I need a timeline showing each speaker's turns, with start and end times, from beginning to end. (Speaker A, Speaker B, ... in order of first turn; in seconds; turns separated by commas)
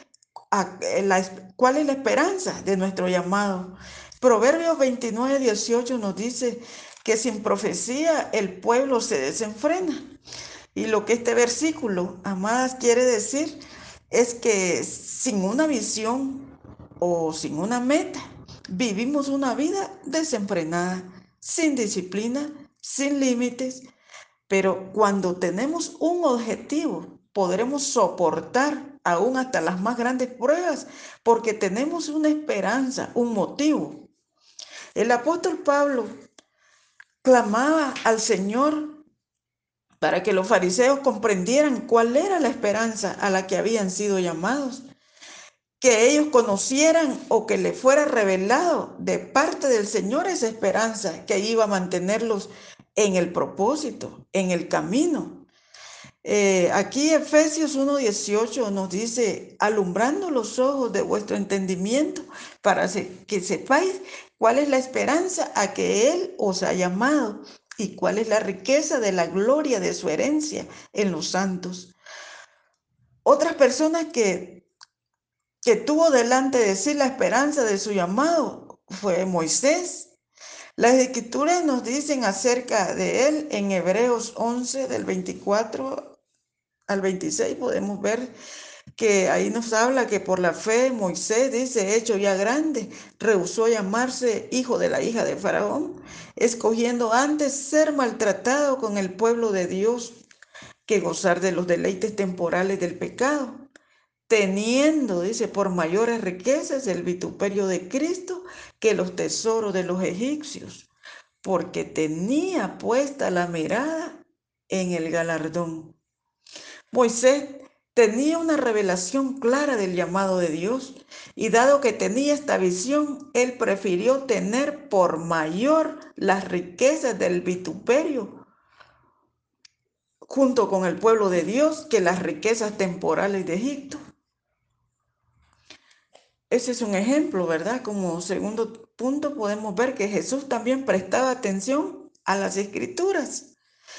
Speaker A: 0.5-10.0, Speaker A: 10.8-13.6, Speaker A: 14.1-16.5, Speaker A: 17.0-23.9, Speaker A: 24.5-34.1, Speaker A: 35.0-36.1, Speaker A: 37.2-39.0, Speaker A: 40.0-44.8, Speaker A: 45.8-55.5, Speaker A: 56.2-71.9, Speaker A: 73.2-74.6, Speaker A: 75.6-80.1, Speaker A: 80.8-86.2, Speaker A: 86.9-88.3, Speaker A: 89.0-100.2, Speaker A: 100.9-103.7, Speaker A: 104.3-110.9, Speaker A: 111.4-116.0, Speaker A: 116.9-128.4, Speaker A: 130.3-134.0, Speaker A: 136.5-143.5